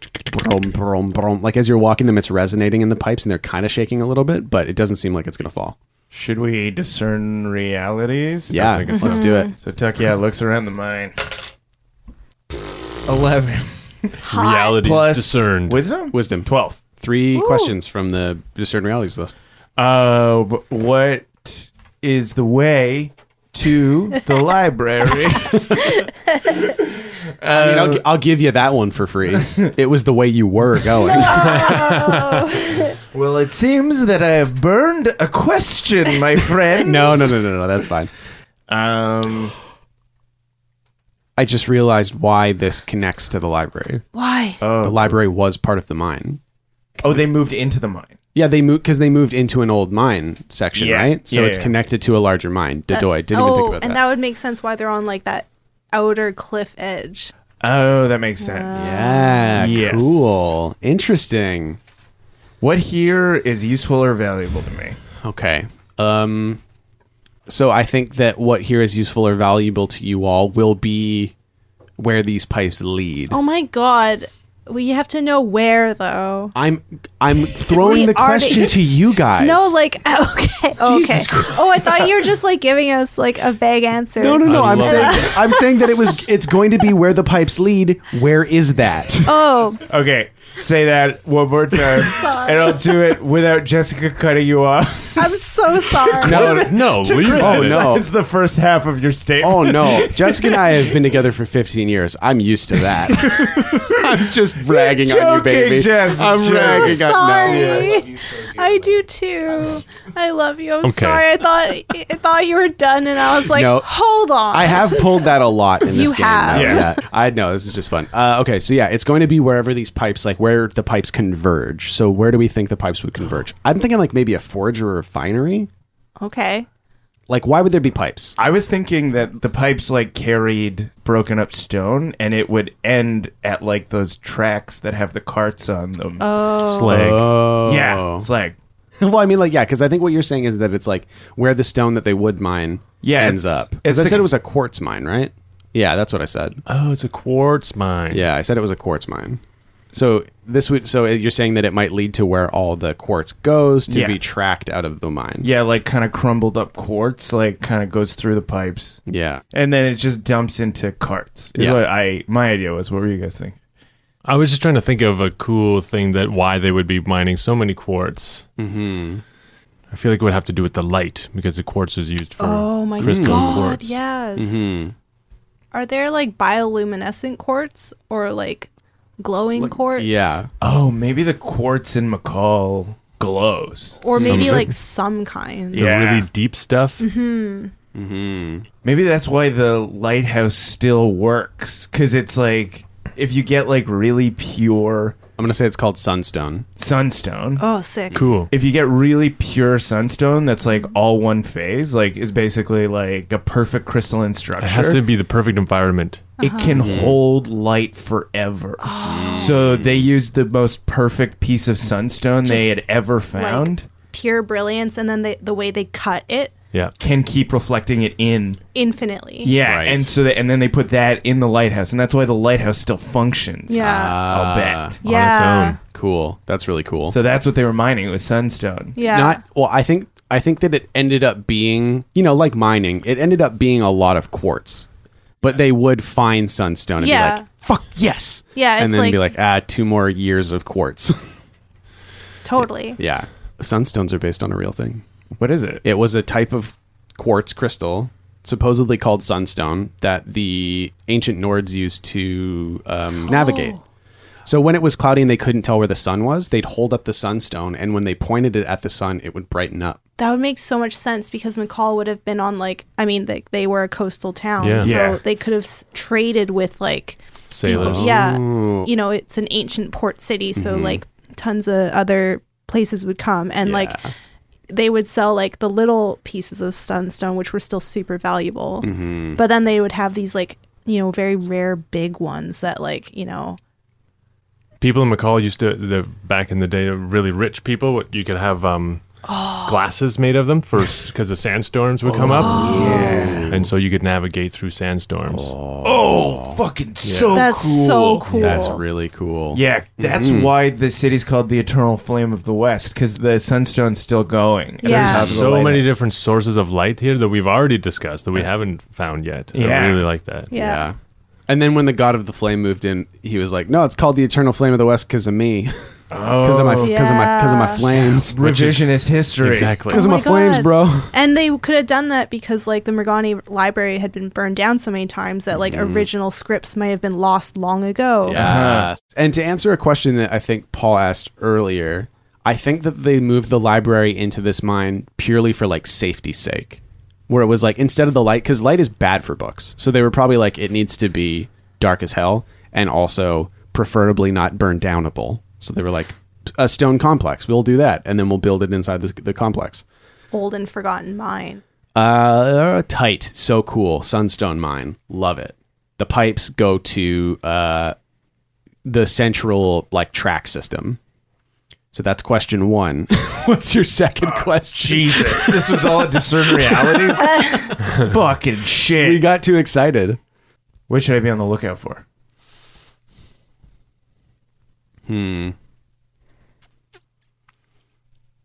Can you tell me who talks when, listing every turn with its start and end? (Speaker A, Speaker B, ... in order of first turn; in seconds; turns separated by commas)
Speaker A: 0.2-5.8, Speaker B: 6.1-8.6, Speaker A: 8.5-9.5, Speaker C: 8.5-9.2, Speaker D: 8.9-9.5, Speaker B: 9.6-11.3, Speaker B: 13.0-14.2, Speaker D: 14.2-14.8, Speaker C: 14.3-15.8, Speaker B: 14.8-16.8, Speaker A: 16.1-19.4, Speaker D: 17.3-17.7, Speaker B: 19.8-26.0, Speaker D: 25.8-26.1, Speaker B: 26.5-26.9, Speaker B: 27.4-28.0, Speaker A: 27.5-31.8, Speaker B: 29.4-29.6, Speaker D: 31.0-33.0, Speaker C: 31.6-32.4, Speaker B: 33.1-37.4, Speaker A: 36.8-38.1, Speaker B: 38.7-39.5, Speaker A: 41.4-44.0, Speaker D: 44.1-44.6, Speaker B: 44.6-45.1, Speaker A: 44.8-46.4, Speaker B: 47.0-48.1, Speaker A: 48.3-54.0, Speaker B: 50.8-51.7, Speaker D: 52.9-57.3, Speaker B: 57.6-60.5, Speaker D: 58.4-59.6, Speaker A: 58.8-61.8, Speaker B: 62.6-65.0, Speaker A: 65.2-66.6, Speaker A: 67.5-71.3, Speaker A: 72.0-73.4, Speaker D: 73.3-76.5, Speaker A: 76.5-79.7, Speaker D: 77.4-86.2, Speaker A: 80.8-82.2, Speaker A: 84.2-89.5, Speaker C: 84.4-85.3, Speaker D: 89.2-89.8, Speaker B: 89.9-95.4, Speaker D: 92.1-92.8, Speaker D: 95.2-96.6, Speaker B: 96.2-100.8, Speaker A: 96.2-98.1, Speaker C: 96.2-98.0, Speaker A: 99.4-109.0, Speaker B: 102.9-104.0, Speaker B: 104.7-108.0, Speaker D: 106.7-115.2, Speaker C: 110.8-111.3, Speaker A: 113.5-113.9, Speaker A: 114.5-125.7, Speaker D: 115.9-117.0, Speaker B: 116.5-116.9, Speaker D: 126.2-126.7, Speaker A: 127.3-128.3, Speaker B: 128.4-136.2, Speaker D: 136.2-136.9, Speaker C: 136.6-137.3, Speaker A: 136.9-138.2, Speaker B: 137.6-138.6, Speaker A: 139.0-146.6, Speaker B: 143.0-144.2, Speaker C: 146.7-148.2, Speaker A: 148.1-149.4, Speaker A: 149.9-155.5, Speaker B: 153.9-154.2, Speaker B: 155.4-159.0, Speaker A: 159.1-159.4, Speaker B: 159.5-163.6, Speaker A: 161.6-161.8, Speaker C: 164.2-168.4, Speaker A: 168.6-169.2, Speaker C: 169.9-174.0, Speaker D: 172.4-174.6, Speaker A: 173.0-173.7, Speaker A: 174.4-174.9, Speaker D: 175.7-178.7, Speaker D: 179.2-180.4, Speaker A: 179.6-180.5, Speaker B: 180.6-184.6, Speaker D: 184.0-186.0, Speaker C: 184.2-184.7, Speaker B: 185.7-186.3, Speaker C: 185.8-187.0, Speaker D: 187.0-187.7, Speaker A: 187.9-188.7, Speaker B: 188.8-195.2, Speaker A: 195.4-196.7, Speaker B: 196.8-197.6, Speaker D: 197.6-198.2, Speaker C: 198.1-198.5, Speaker B: 198.5-205.0, Speaker C: 204.6-206.3, Speaker D: 206.4-206.8, Speaker B: 206.4-213.9, Speaker A: 206.8-207.2, Speaker D: 208.8-209.5, Speaker A: 209.1-210.1, Speaker D: 212.4-212.8, Speaker D: 213.3-216.5, Speaker B: 217.0-218.6, Speaker D: 218.8-219.5, Speaker B: 219.4-225.0, Speaker A: 219.6-220.1, Speaker D: 223.7-224.2, Speaker A: 223.8-224.9, Speaker C: 225.0-225.8, Speaker D: 225.0-225.8, Speaker A: 225.9-227.2, Speaker B: 227.1-229.0, Speaker D: 228.9-229.4, Speaker A: 229.1-234.9, Speaker A: 235.4-241.2, Speaker D: 237.0-237.4, Speaker D: 238.5-239.2, Speaker D: 242.4-243.0, Speaker A: 242.9-245.0, Speaker B: 245.4-245.8, Speaker A: 245.8-253.8, Speaker D: 253.2-253.8, Speaker A: 254.4-260.0, Speaker D: 260.2-274.0, Speaker C: 264.6-264.9, Speaker B: 264.8-265.2, Speaker C: 267.5-268.2, Speaker A: 267.7-268.9, Speaker A: 270.6-271.0, Speaker A: 273.6-274.1, Speaker D: 274.7-283.6, Speaker A: 278.8-279.4, Speaker C: 284.8-289.0, Speaker D: 289.2-289.8, Speaker C: 289.6-295.5, Speaker B: 292.1-293.5, Speaker D: 292.3-293.4, Speaker A: 292.6-293.7, Speaker A: 295.3-296.6, Speaker B: 295.8-298.6, Speaker C: 297.0-297.4, Speaker D: 297.3-298.8, Speaker A: 298.3-300.5, Speaker B: 299.5-305.9, Speaker D: 304.8-305.3, Speaker A: 304.9-305.5, Speaker C: 304.9-310.5, Speaker B: 309.5-310.1, Speaker D: 310.5-310.9, Speaker A: 310.5-310.9, Speaker A: 311.5-315.7, Speaker B: 316.1-317.0, Speaker A: 316.4-318.4, Speaker D: 316.8-317.8, Speaker B: 317.9-319.8, Speaker C: 318.1-320.1, Speaker A: 319.9-321.1, Speaker D: 319.9-328.4, Speaker A: 325.5-326.1, Speaker A: 328.3-349.8, Speaker B: 328.3-328.9, Speaker D: 350.3-351.6, Speaker A: 351.9-357.9, Speaker A: 358.9-361.0, Speaker A: 361.9-367.2, Speaker B: 364.4-369.2, Speaker D: 367.2-367.7, Speaker A: 369.0-370.2, Speaker B: 370.9-372.0, Speaker A: 375.1-375.5